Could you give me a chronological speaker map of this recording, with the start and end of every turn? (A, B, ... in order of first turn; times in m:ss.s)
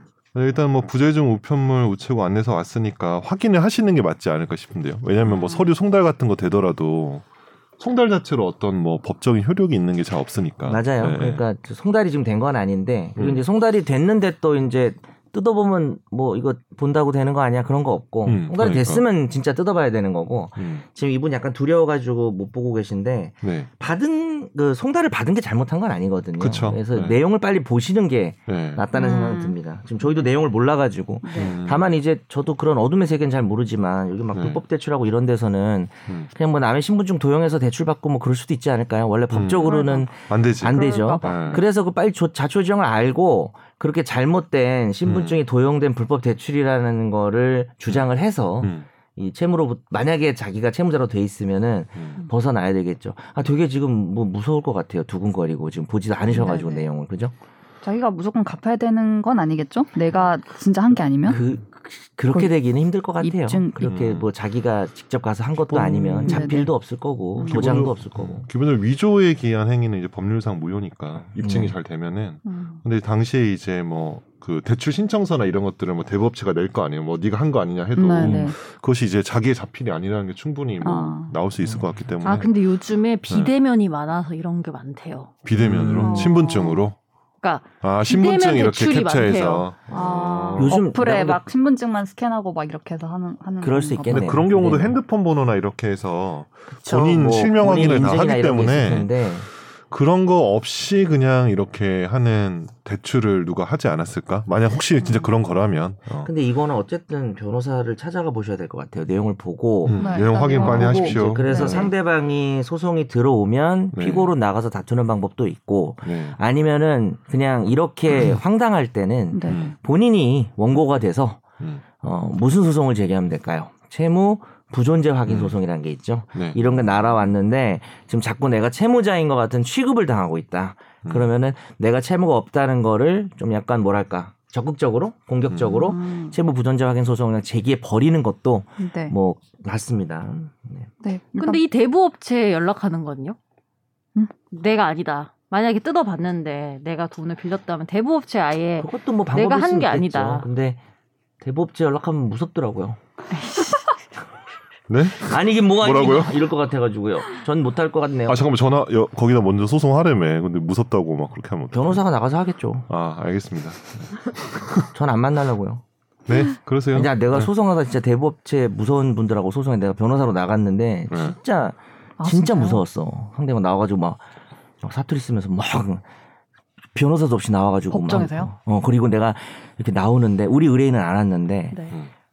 0:00.3-0:07.2 A
0:05.3-0:05.7 B
0:07.8-0:11.4 A
0:10.7-0:57.3 C
0:13.2-0:13.4 A
0:18.3-0:19.0 A
0:20.6-0:20.8 A
0:23.4-0:23.7 A
0:26.4-0:27.2 A
0:28.5-0:28.9 A
0:28.9-0:30.2 B
0:31.2-0:31.6 B
0:31.4-0:31.9 A
0:34.3-0:34.6 A
0:39.3-0:41.6 A
0:39.6-0:40.1 B
0:40.6-0:41.6 B
0:45.0-0:45.4 A
0:48.6-0:48.9 A
0:56.3-0:56.8 B
0:57.8-1:01.4 B
1:01.3-1:08.5 C
1:03.2-1:03.9 B
1:03.8-1:04.3 A
1:05.7-1:06.6 A
1:06.3-1:06.7 B
1:07.4-1:07.7 B
1:07.5-1:22.5 A
1:11.4-1:11.7 C
1:12.4-1:12.8 B
1:18.0-1:18.6 B
1:18.2-1:18.5 C
1:20.8-1:21.4 B
1:21.6-1:21.9 C
1:22.2-1:25.3 D
1:25.4-1:27.0 A
1:25.6-1:26.3 C
1:25.6-1:26.9 B
1:27.4-1:29.7 D
1:27.8-1:30.8 A
1:29.9-1:34.4 B
1:29.9-1:31.4 C
1:33.6-1:35.0 C
1:34.1-1:39.2 A
1:36.7-1:39.5 C
1:39.9-1:46.3 A
1:46.2-2:01.4 C
1:49.9-1:51.9 A
1:49.9-1:51.9 B
1:53.9-1:54.3 A
1:56.0-1:56.4 A
1:59.3-1:59.7 B
1:59.5-1:59.8 A
2:02.0-2:20.9 C
2:05.3-2:05.6 A
2:06.4-2:06.7 A
2:15.5-2:15.8 A
2:15.8-2:16.4 B
2:18.8-2:19.1 B
2:21.0-2:21.6 B
2:21.4-2:23.4 D
2:24.5-2:30.4 D
2:28.8-2:30.8 C
2:31.4-2:33.0 C
2:33.3-2:33.9 D
2:34.9-2:36.5 A
2:35.2-2:38.4 C
2:38.3-2:42.0 A
2:41.7-2:42.9 C
2:42.9-2:44.9 A
2:44.9-2:45.8 C
2:46.3-2:47.5 A
2:46.9-2:54.2 C
2:51.1-2:51.4 A
2:52.2-2:52.8 B
2:54.8-2:56.0 C
2:56.9-3:01.8 C
2:57.9-2:58.5 B